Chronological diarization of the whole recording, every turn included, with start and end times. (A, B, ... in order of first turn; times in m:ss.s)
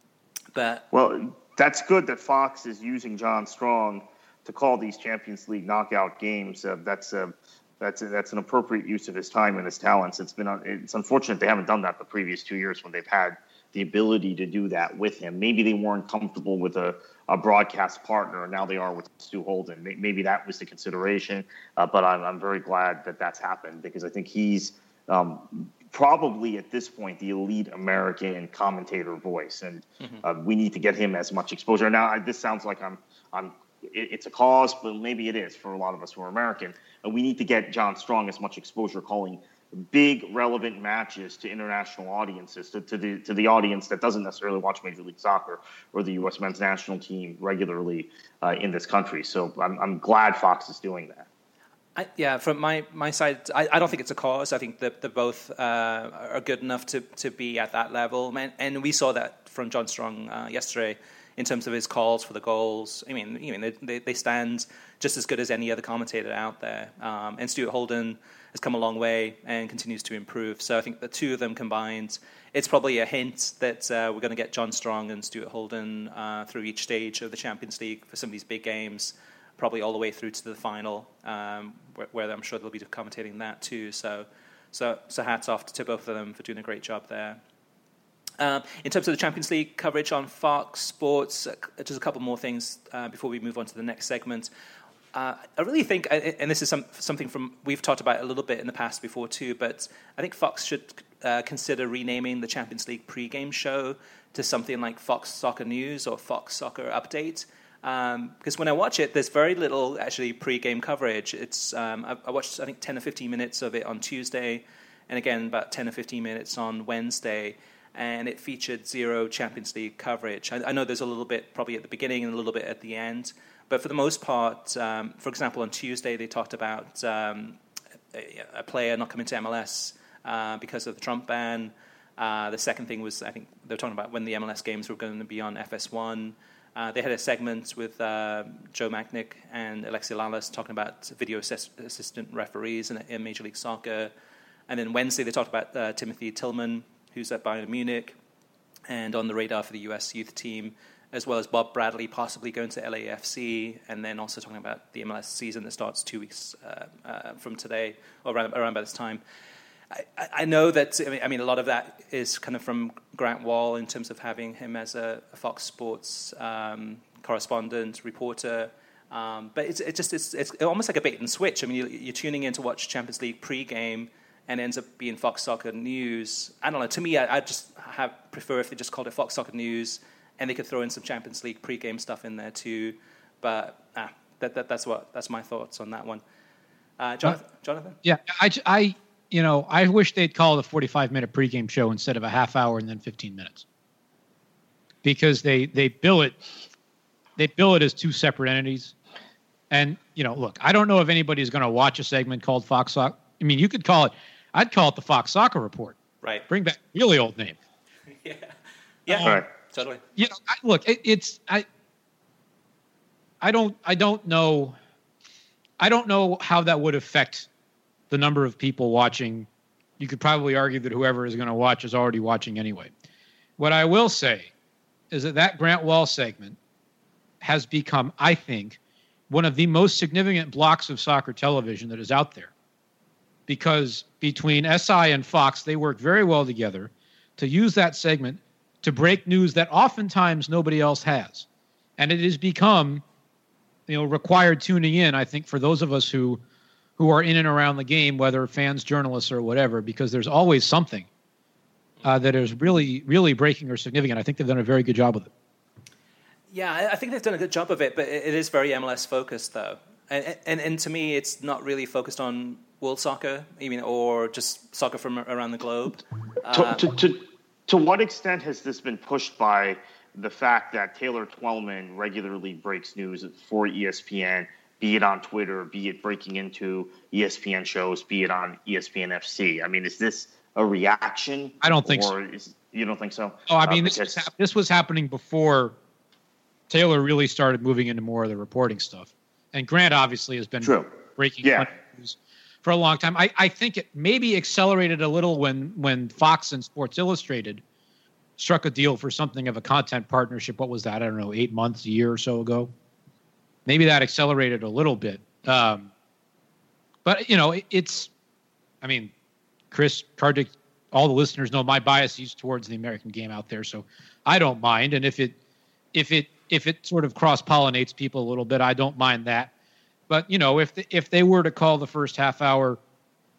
0:00.5-0:00.8 A
0:00.9-0:51.3 B
0:52.0-1:27.4 A
1:28.4-1:34.5 A
1:35.1-2:07.6 A
2:08.1-2:24.1 A
2:24.7-2:28.1 A
2:28.9-2:39.2 A
2:39.9-3:06.2 A
3:07.0-3:08.0 A
3:08.0-3:13.6 C
3:15.0-3:16.4 C
3:17.4-3:18.9 C
3:19.7-3:26.0 C
3:26.2-3:26.5 A
3:26.5-3:27.6 C
3:28.2-3:28.5 A
3:29.0-3:30.0 A
3:29.1-3:29.4 C
3:30.2-3:31.6 C
3:33.4-3:34.8 C
3:35.8-3:37.5 C
3:38.1-3:39.5 C
3:40.0-3:42.9 C
3:43.6-3:44.5 C
3:45.1-3:46.6 C
3:47.4-3:52.5 C
3:53.5-4:01.4 C
4:02.0-4:03.0 C
4:03.9-4:06.4 C
4:07.0-4:11.1 C
4:12.0-4:15.3 C
4:16.5-4:26.8 A
4:26.5-4:44.2 B
4:41.6-4:42.1 C
4:43.5-4:45.8 C
4:46.7-4:57.6 C
4:50.6-4:51.7 B
4:58.4-5:02.7 C
5:03.6-5:05.9 C
5:07.0-5:08.1 C
5:08.8-5:09.1 C
5:09.7-5:15.4 C
5:15.9-5:19.5 C
5:20.1-5:22.8 C